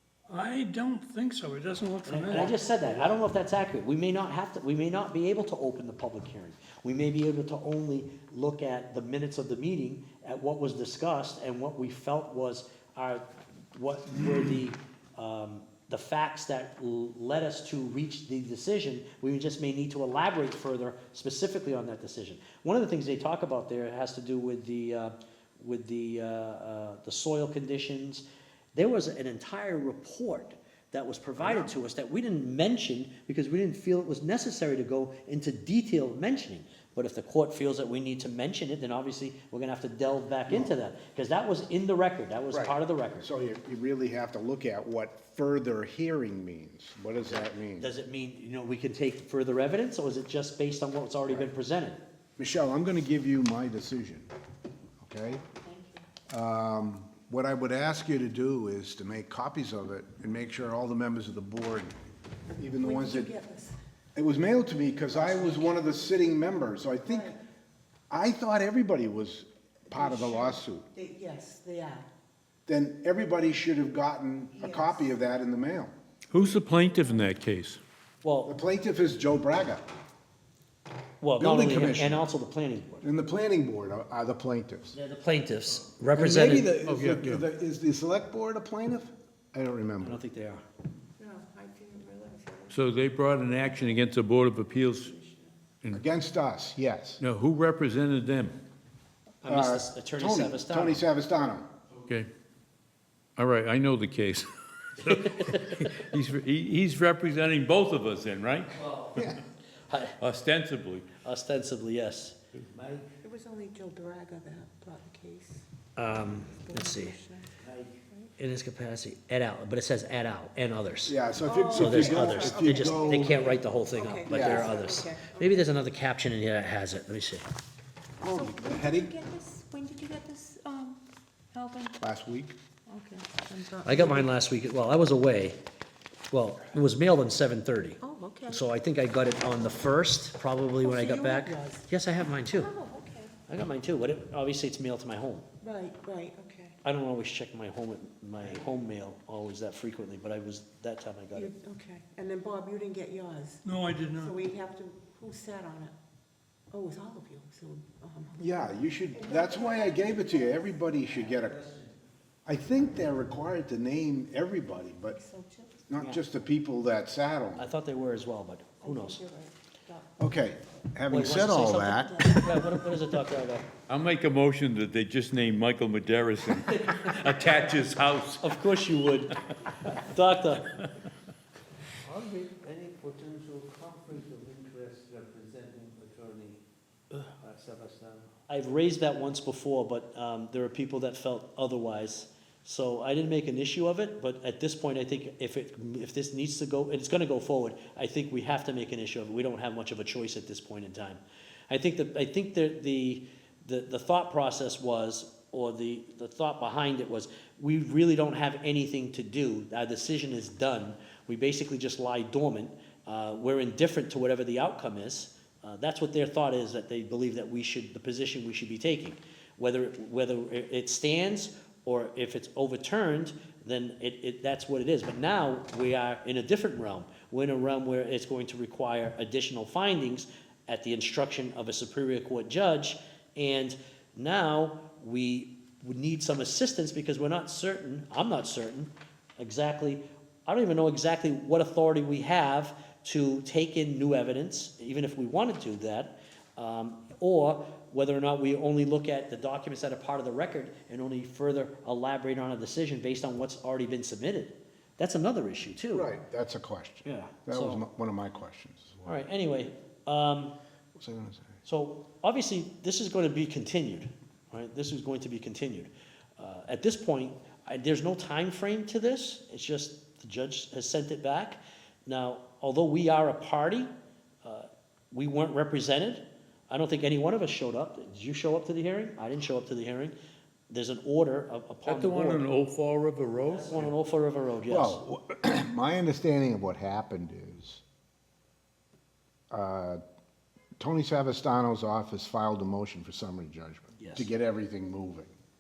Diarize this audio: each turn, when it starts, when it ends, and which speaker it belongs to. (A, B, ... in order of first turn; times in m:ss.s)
0:00.3-0:02.7 A
0:02.0-0:43.3 B
0:31.4-0:31.7 C
0:40.5-0:40.7 C
0:42.5-0:47.9 C
0:47.3-0:52.0 B
0:52.4-0:54.3 C
0:55.0-0:55.4 C
0:55.2-0:56.1 D
0:56.3-1:02.0 C
1:02.6-1:03.3 C
1:02.8-1:03.8 D
1:04.2-1:07.3 C
1:05.1-1:06.3 D
1:07.0-1:07.4 D
1:08.1-1:10.9 C
1:09.9-1:12.1 D
1:12.7-1:15.9 C
1:14.5-1:15.1 D
1:16.3-1:17.8 E
1:18.2-1:18.5 B
1:18.5-1:19.9 C
1:21.2-1:23.1 B
1:21.4-1:22.2 C
1:23.0-1:25.0 C
1:24.9-1:26.7 B
1:26.1-1:30.2 C
1:26.8-1:27.4 E
1:30.0-1:30.6 B
1:31.2-1:35.6 D
1:32.7-1:35.1 E
1:35.9-1:37.2 C
1:37.2-1:38.6 E
1:39.4-1:41.0 B
1:39.5-1:41.7 C
1:43.4-1:48.8 E
1:45.0-1:45.8 B
1:48.8-1:49.1 B
1:49.2-1:49.4 C
1:49.9-1:50.2 B
1:50.2-1:51.1 E
1:51.2-1:52.4 B
1:52.7-1:53.1 F
1:53.2-1:55.7 D
1:56.0-1:57.2 B
1:56.2-1:57.6 D
1:58.4-2:01.2 B
2:01.1-2:03.4 C
2:01.4-2:05.7 D
2:01.7-2:07.5 B
2:04.3-2:04.7 C
2:08.2-2:09.2 C
2:08.3-2:09.1 D
2:08.6-2:11.0 G
2:11.6-2:12.0 G
2:12.0-2:12.6 C
2:12.9-2:14.4 D
2:13.8-2:15.6 B
2:16.3-2:22.7 B
2:18.0-2:18.6 D
2:20.8-2:21.9 D
2:22.5-2:23.4 D
2:23.5-2:25.4 B
2:25.6-2:26.8 D
2:26.8-2:31.5 B
2:31.3-2:33.6 D
2:33.6-2:34.4 A
2:34.2-2:35.9 D
2:36.7-2:40.9 D
2:38.4-2:41.6 C
2:41.1-2:41.9 F
2:42.5-2:45.2 C
2:45.1-2:45.8 D
2:45.9-2:47.7 C
2:47.6-2:49.2 B
2:48.8-2:50.1 D
2:50.2-2:52.3 C
2:51.1-2:53.7 B
2:53.9-2:58.6 E
2:56.5-2:57.7 B
2:58.4-3:00.7 B
3:02.0-3:06.6 F
3:07.1-3:08.3 F
3:08.5-4:16.1 B
4:15.9-4:19.2 C
4:17.0-4:17.8 B
4:19.0-4:20.5 B
4:21.0-4:21.6 C
4:21.6-4:33.9 B
4:34.4-4:40.1 B
4:40.7-4:42.5 B
4:41.9-4:43.9 E
4:43.4-4:45.0 B
4:44.7-4:47.8 C
4:49.5-4:50.0 C
4:50.8-4:55.3 C
4:54.0-4:54.3 B